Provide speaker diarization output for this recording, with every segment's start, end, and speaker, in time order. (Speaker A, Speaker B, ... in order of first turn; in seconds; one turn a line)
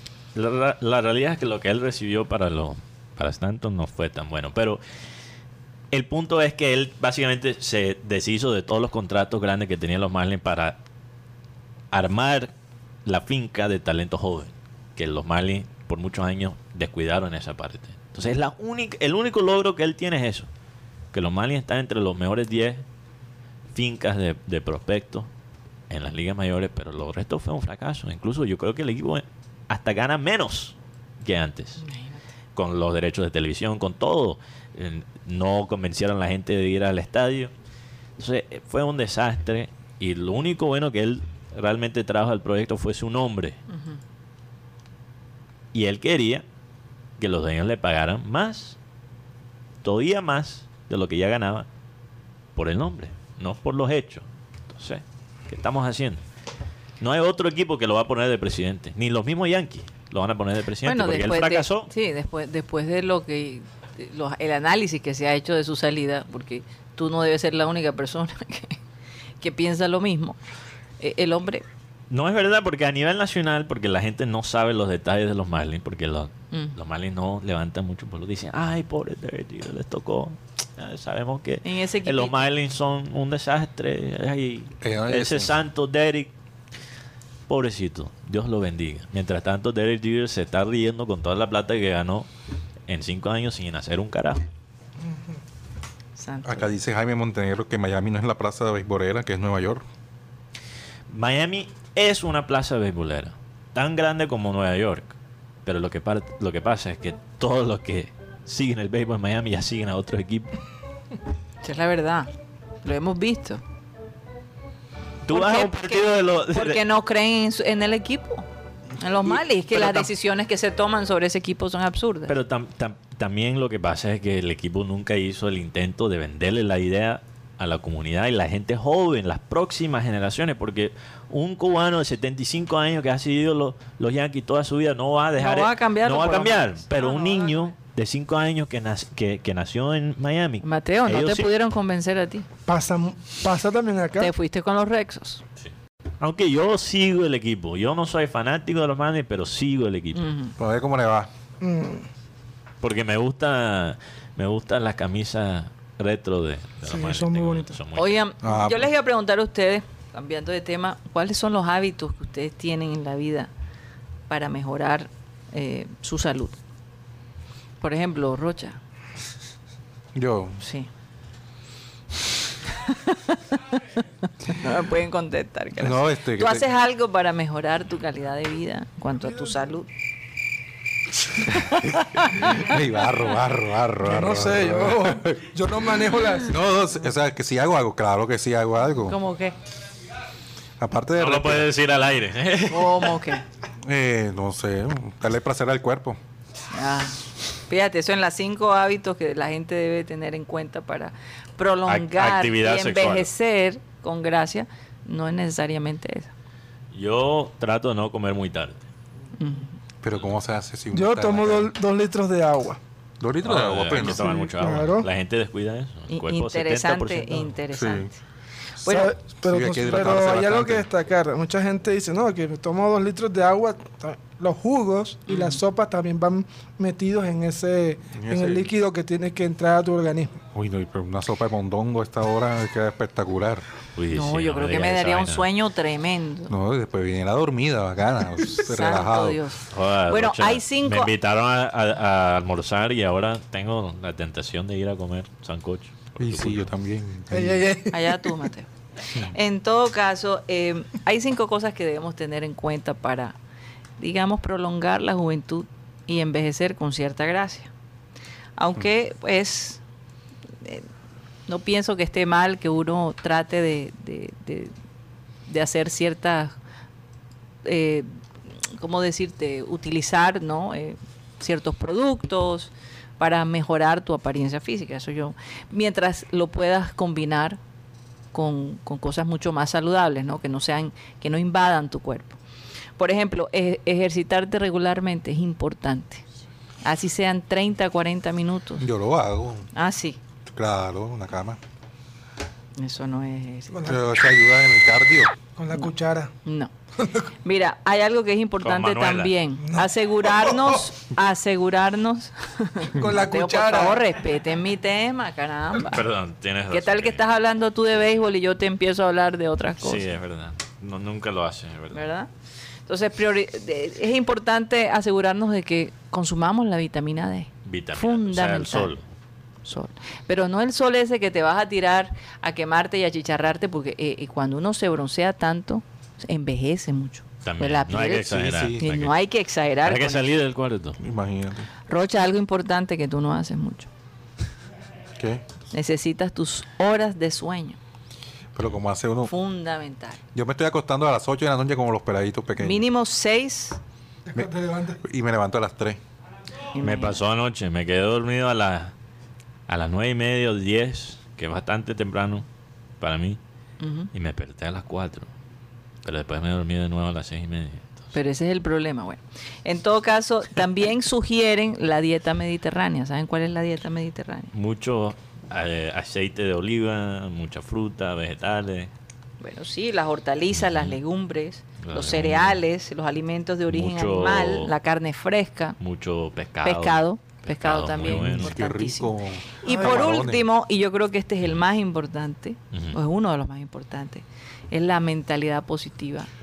Speaker A: 0.3-4.8
Speaker A: 5.9-10.8
Speaker A: 11.9-12.5
Speaker A: 13.1-20.5
Speaker A: 21.1-22.8
Speaker A: 23.7-25.3
Speaker A: 25.9-31.8
Speaker B: 31.8-32.2
Speaker A: 32.5-37.5
Speaker A: 38.2-43.6
Speaker B: 43.7-44.0
Speaker A: 45.7-46.4
Speaker A: 47.2-48.8
Speaker A: 49.8-51.6
Speaker A: 52.5-56.2
Speaker A: 57.0-61.9
Speaker B: 60.8-68.8
Speaker B: 69.4-70.4
Speaker B: 71.0-71.6
Speaker A: 72.1-86.3
Speaker B: 81.6-82.3
Speaker C: 84.8-85.5
Speaker A: 87.5-92.3
Speaker A: 92.9-94.4
Speaker B: 96.2-96.7
Speaker C: 96.4-99.8
Speaker A: 101.1-110.5
Speaker B: 111.6-112.3
Speaker B: 112.8-113.6
Speaker A: 115.2-116.8
Speaker B: 115.3-118.5
Speaker B: 119.0-122.3
Speaker A: 119.2-120.1
Speaker A: 122.3-141.5
Speaker B: 135.4-137.7
Speaker B: 140.6-142.4
Speaker D: 142.7-144.3
Speaker B: 144.2-145.4
Speaker A: 145.6-150.3
Speaker B: 150.1-150.5
Speaker C: 150.6-151.3
Speaker D: 151.6-152.1
Speaker A: 152.8-158.1
Speaker D: 156.8-157.8
Speaker B: 157.9-163.5
Speaker C: 158.4-158.9
Speaker B: 164.3-166.6
Speaker B: 167.8-168.8
Speaker C: 170.1-170.6
Speaker B: 170.6-170.9
Speaker B: 172.7-179.9
Speaker C: 175.8-176.7
Speaker C: 181.4-185.4
Speaker B: 181.8-182.5
Speaker D: 184.0-186.6
Speaker C: 186.4-189.2
Speaker B: 189.0-189.5
Speaker C: 190.8-191.7
Speaker A: 191.2-193.2
Speaker B: 192.7-193.4
Speaker C: 193.8-196.2
Speaker B: 196.7-206.3
Speaker A: 201.8-203.3
Speaker A: 206.9-208.8
Speaker B: 209.4-209.8
Speaker C: 210.0-211.7
Speaker D: 210.9-212.8
Speaker C: 213.2-214.5
Speaker A: 213.4-217.4
Speaker D: 213.9-215.1
Speaker B: 216.1-218.2
Speaker C: 217.7-218.1
Speaker C: 218.8-220.9
Speaker B: 218.8-219.1
Speaker D: 218.9-230.3
Speaker B: 225.3-225.6
Speaker C: 228.1-228.7
Speaker C: 230.5-233.6
Speaker A: 233.9-235.5
Speaker B: 234.1-236.5
Speaker C: 236.5-239.4
Speaker B: 238.6-241.1
Speaker A: 239.7-246.7
Speaker C: 246.2-247.6
Speaker D: 247.3-248.4
Speaker B: 247.9-253.3
Speaker B: 254.0-257.7
Speaker B: 258.6-259.8
Speaker B: 261.5-264.7
Speaker B: 265.5-266.6
Speaker B: 267.6-268.2
Speaker B: 268.7-277.6
Speaker B: 278.3-282.4
Speaker B: 283.0-286.2
Speaker B: 286.8-288.9
Speaker C: 288.8-289.7
Speaker B: 289.7-290.2
Speaker C: 290.5-291.6
Speaker B: 292.8-293.9
Speaker D: 293.7-294.0
Speaker C: 293.8-295.3
Speaker D: 295.6-296.3
Speaker B: 296.4-296.7
Speaker B: 297.4-306.1
Speaker A: 298.6-299.3
Speaker D: 299.6-300.7
Speaker D: 302.9-304.1
Speaker A: 305.9-307.2
Speaker B: 306.7-310.0
Speaker A: 309.8-312.0
Speaker B: 311.9-312.3
Speaker B: 312.9-318.9
Speaker A: 317.6-319.0
Speaker B: 319.6-330.2
Speaker A: 327.4-329.1
Speaker C: 328.3-328.8
Speaker A: 329.8-331.0
Speaker C: 331.0-331.7
Speaker B: 331.9-333.9
Speaker C: 335.1-335.4
Speaker B: 335.7-337.8
Speaker C: 338.5-339.3
Speaker B: 339.2-340.2
Speaker C: 340.3-342.8
Speaker B: 342.6-343.8
Speaker D: 344.3-345.0
Speaker C: 344.3-346.0
Speaker B: 346.7-347.2
Speaker A: 346.8-348.9
Speaker A: 349.7-352.4
Speaker A: 353.0-353.4
Speaker B: 353.8-354.1
Speaker A: 354.1-355.3
Speaker A: 356.0-358.1
Speaker B: 358.1-364.5
Speaker A: 364.5-368.9
Speaker B: 369.4-375.8
Speaker A: 370.6-371.0
Speaker A: 371.8-372.6
Speaker A: 373.7-374.7
Speaker A: 375.8-378.6
Speaker B: 376.6-386.3
Speaker C: 378.0-380.4
Speaker D: 379.6-380.0
Speaker A: 382.7-383.0